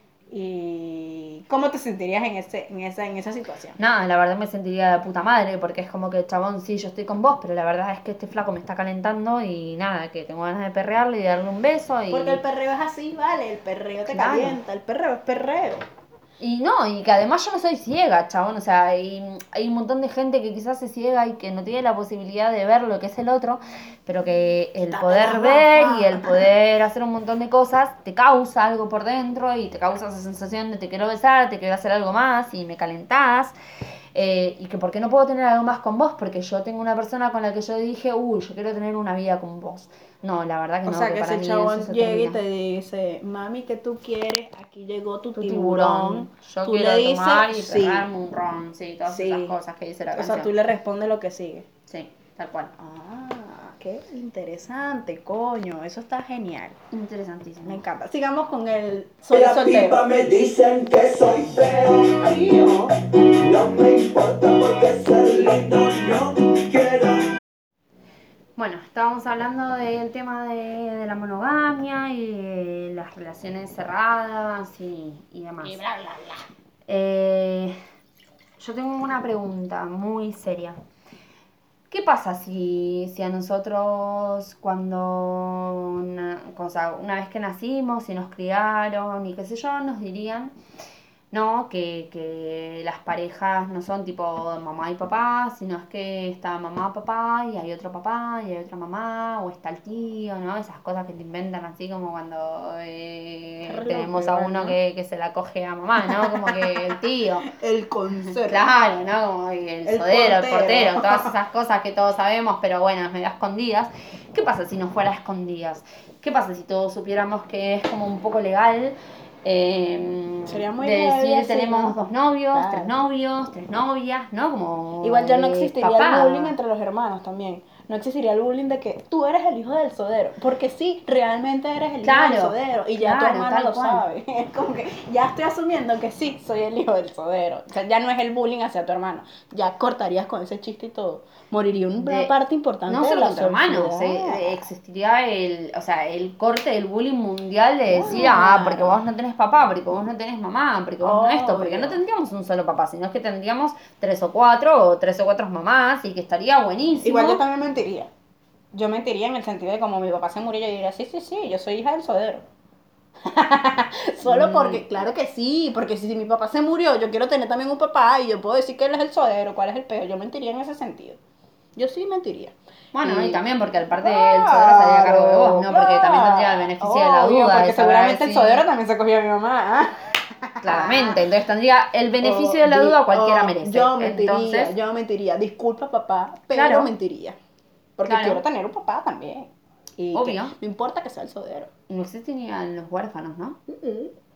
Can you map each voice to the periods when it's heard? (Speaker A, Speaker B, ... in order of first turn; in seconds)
Speaker A: 0.3-3.8, 12.1-15.8, 24.9-26.5, 40.9-48.1, 49.1-49.6, 50.1-51.7, 52.8-56.8, 57.6-60.0, 75.6-76.5, 103.7-104.8, 106.0-108.7, 109.9-111.3, 120.5-122.9, 125.0-144.7, 147.9-149.0, 151.0-152.0, 157.0-158.1, 158.7-162.4, 163.2-171.2, 171.8-173.4, 174.0-181.2, 182.2-187.4, 188.0-191.7, 193.7-194.1
Speaker B: 3.8-12.4, 14.1-14.6, 16.4-33.5, 34.1-42.4, 45.4-50.5, 51.9-52.7, 56.9-57.8, 68.6-75.8, 76.9-77.8, 78.6-80.8, 81.9-90.5, 91.3-107.5, 108.4-126.6, 132.0-134.0, 142.0-142.3, 142.9-157.4, 164.2-164.8, 172.9-178.7, 180.6-184.7, 186.5-186.9, 188.1-188.4, 190.1-190.5, 191.9-193.6
Speaker C: 59.3-67.3